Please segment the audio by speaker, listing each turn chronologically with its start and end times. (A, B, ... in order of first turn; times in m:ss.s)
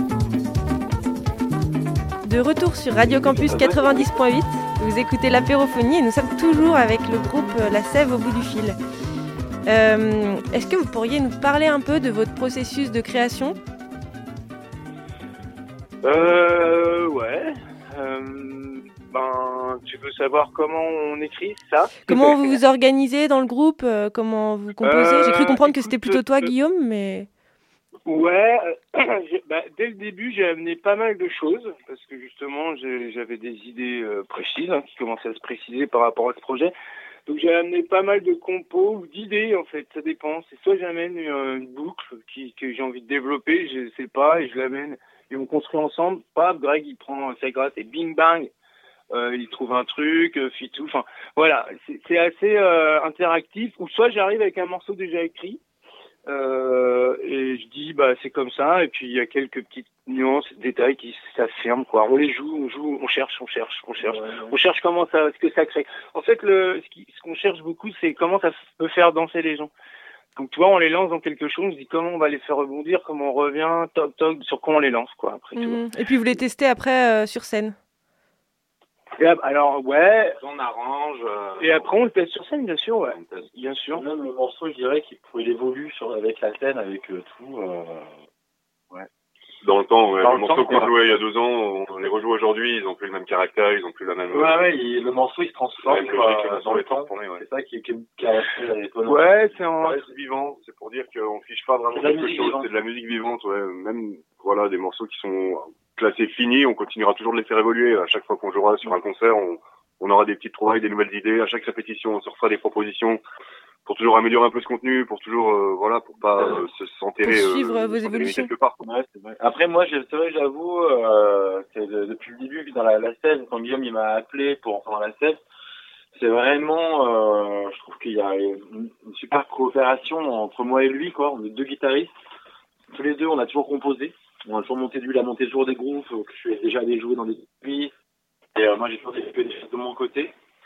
0:02.2-0:08.8 A
0:09.7-0:13.6 A
0:16.0-0:22.6 B
0:22.0-0:27.3 A
0:24.8-0:26.5 B
0:28.0-0:36.7 B
0:37.3-0:48.5 B
0:49.1-0:55.6 B
0:56.3-1:09.7 B
1:10.4-1:15.8 B
1:15.6-1:17.8 A
1:19.2-1:20.4 B
1:20.4-1:21.9 C
1:21.6-1:24.0 B
1:23.1-1:23.6 C
1:23.9-1:28.1 D
1:29.6-1:34.6 E
1:30.2-1:31.2 D
1:34.3-1:39.4 D
1:35.8-1:37.4 E
1:39.0-1:40.0 B
1:39.8-1:53.2 E
1:42.0-1:42.7 D
1:53.8-1:58.8 E
1:57.2-1:58.5 A
1:58.8-2:05.4 D
2:06.1-2:12.1 D
2:12.9-2:17.9 D
2:18.5-2:20.3 D